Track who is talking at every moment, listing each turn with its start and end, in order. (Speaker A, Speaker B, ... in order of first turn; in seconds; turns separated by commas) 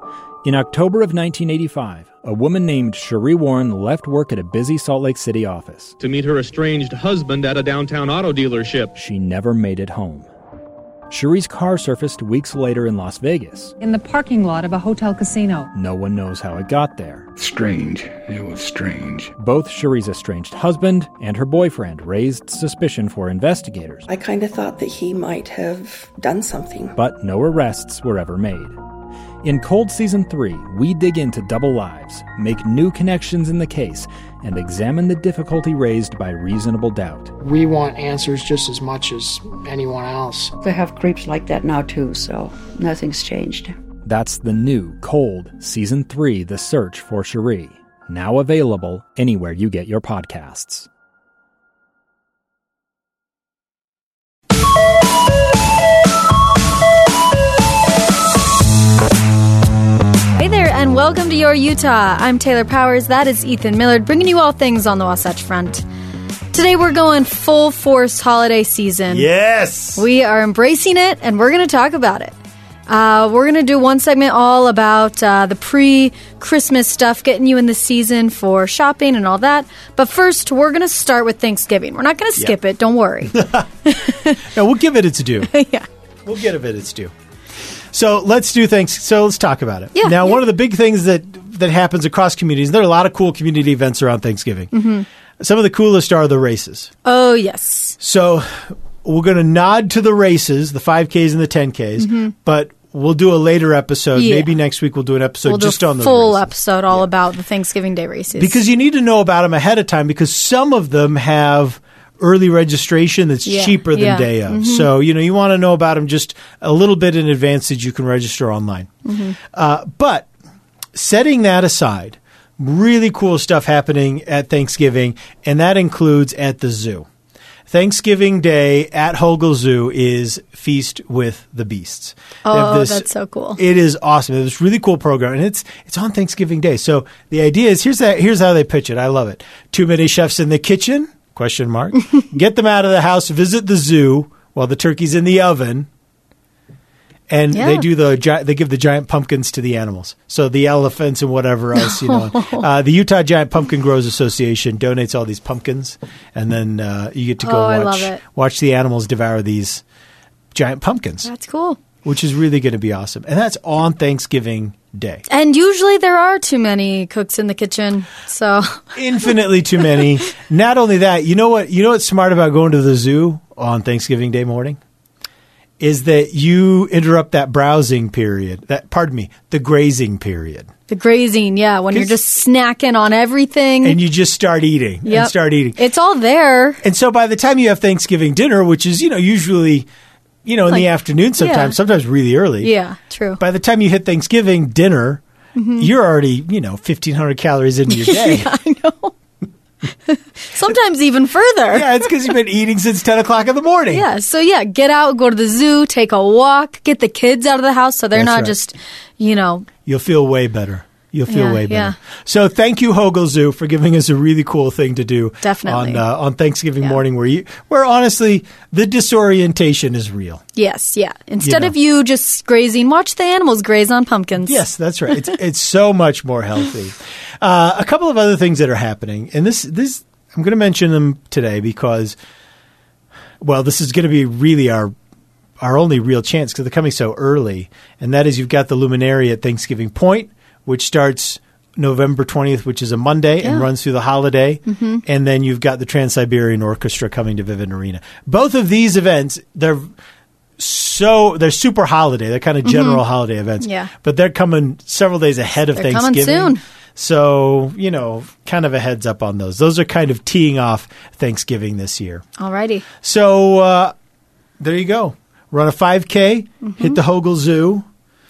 Speaker A: 0.4-6.0, Speaker B: 6.0-8.9, Speaker A: 9.0-10.3, Speaker A: 11.1-13.8, Speaker C: 13.8-15.7, Speaker A: 15.7-17.3, Speaker D: 17.4-19.3, Speaker A: 19.4-24.1, Speaker E: 24.1-26.9, Speaker A: 27.0-28.8, Speaker A: 29.4-37.3, Speaker F: 37.4-40.5, Speaker G: 40.6-43.8, Speaker A: 44.0-50.9, Speaker H: 60.3-65.9, Speaker H: 66.5-69.3, Speaker I: 69.1-70.0, Speaker H: 70.0-72.3, Speaker H: 72.9-84.4, Speaker I: 83.3-83.6, Speaker I: 84.4-85.5, Speaker H: 85.4-85.9, Speaker I: 86.3-87.1, Speaker I: 87.9-94.7, Speaker H: 90.0-90.4, Speaker H: 94.7-95.1, Speaker I: 95.4-96.9, Speaker H: 97.0-98.0, Speaker I: 98.0-107.1, Speaker H: 102.0-102.3, Speaker H: 104.2-104.5, Speaker H: 105.5-108.6, Speaker I: 108.3-118.9, Speaker H: 113.5-114.9, Speaker H: 119.1-119.4, Speaker I: 119.5-120.3, Speaker I: 121.0-127.1, Speaker I: 127.7-145.9, Speaker H: 132.4-133.6, Speaker I: 147.3-159.8, Speaker H: 147.5-147.8, Speaker H: 151.8-152.6, Speaker H: 157.4-158.2, Speaker I: 160.5-161.3, Speaker H: 161.2-161.8, Speaker I: 162.0-165.2, Speaker H: 165.3-168.8, Speaker I: 168.9-174.8, Speaker I: 175.8-180.7, Speaker H: 180.9-184.0, Speaker I: 183.8-185.8, Speaker H: 185.1-186.8, Speaker I: 186.8-189.9, Speaker I: 190.4-192.7, Speaker H: 191.4-191.8, Speaker H: 192.6-193.4, Speaker I: 193.4-195.2, Speaker H: 195.6-195.9, Speaker I: 195.8-198.5, Speaker H: 197.9-199.1, Speaker H: 200.1-202.1, Speaker I: 201.7-204.0, Speaker H: 203.9-209.7, Speaker I: 208.1-208.5, Speaker I: 209.8-220.4, Speaker H: 211.3-211.9, Speaker H: 215.4-216.0, Speaker H: 220.6-224.6, Speaker I: 221.4-221.7, Speaker I: 224.4-232.2, Speaker I: 233.4-234.9, Speaker I: 235.6-249.9, Speaker H: 243.4-243.7, Speaker H: 244.7-245.0, Speaker I: 250.6-262.2, Speaker H: 252.6-253.0, Speaker H: 253.6-253.9, Speaker H: 255.8-256.6, Speaker H: 262.4-262.9, Speaker I: 263.0-263.9, Speaker I: 264.6-267.9, Speaker H: 266.6-267.0